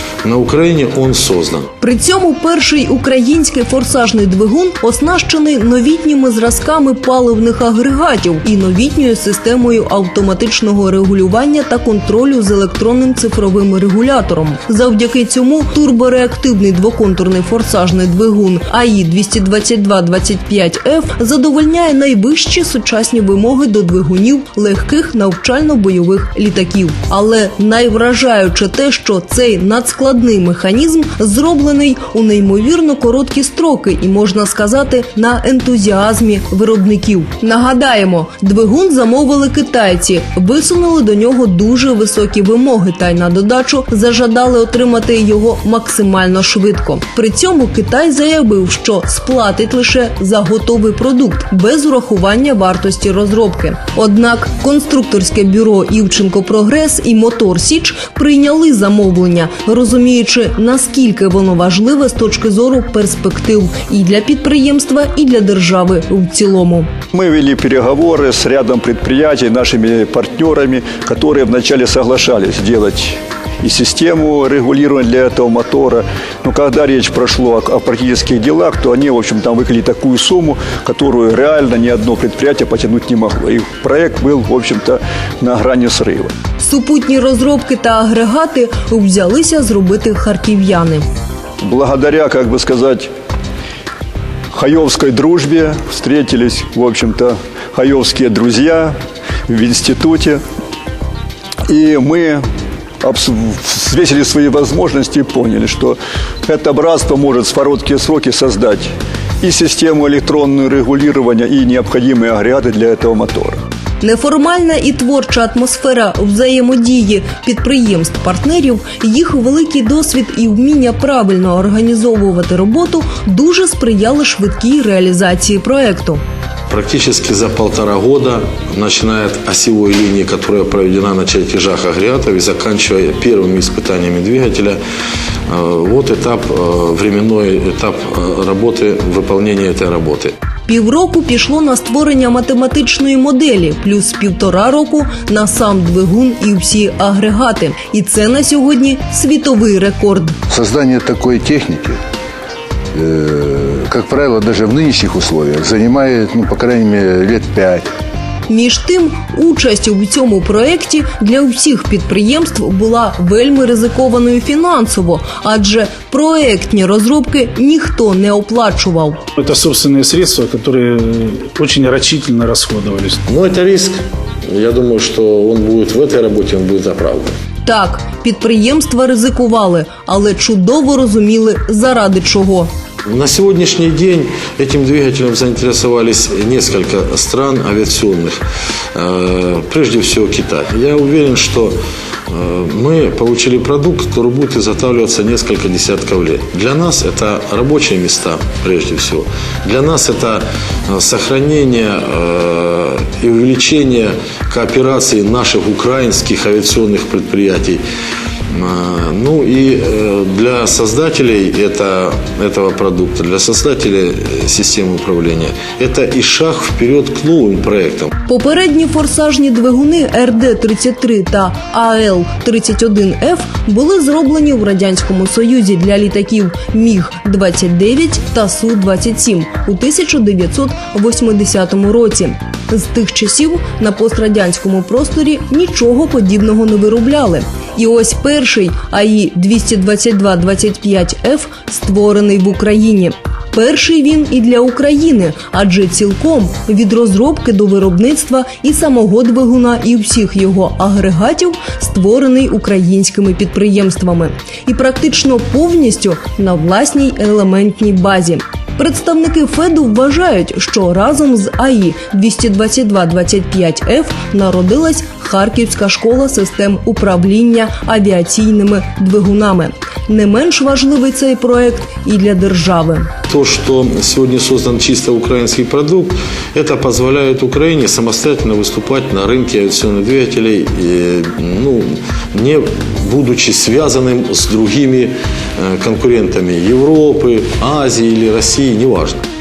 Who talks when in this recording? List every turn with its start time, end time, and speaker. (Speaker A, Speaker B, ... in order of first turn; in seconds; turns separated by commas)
Speaker A: 0.2-1.7, Speaker B: 1.8-66.9, Speaker C: 67.1-86.3, Speaker B: 86.6-91.0, Speaker C: 91.6-93.1, Speaker C: 94.5-98.9, Speaker C: 99.5-100.4, Speaker C: 101.7-102.4, Speaker C: 103.0-113.6, Speaker B: 114.0-126.2, Speaker A: 126.7-134.8, Speaker A: 135.5-140.3, Speaker B: 140.7-150.3, Speaker D: 150.5-152.0, Speaker D: 152.9-157.9, Speaker B: 158.5-169.2, Speaker E: 169.4-173.2, Speaker A: 173.3-177.3, Speaker B: 177.6-182.7, Speaker A: 183.1-188.4, Speaker A: 188.9-191.8, Speaker A: 192.3-207.8, Speaker A: 208.5-218.1, Speaker B: 218.2-273.1, Speaker A: 273.3-289.2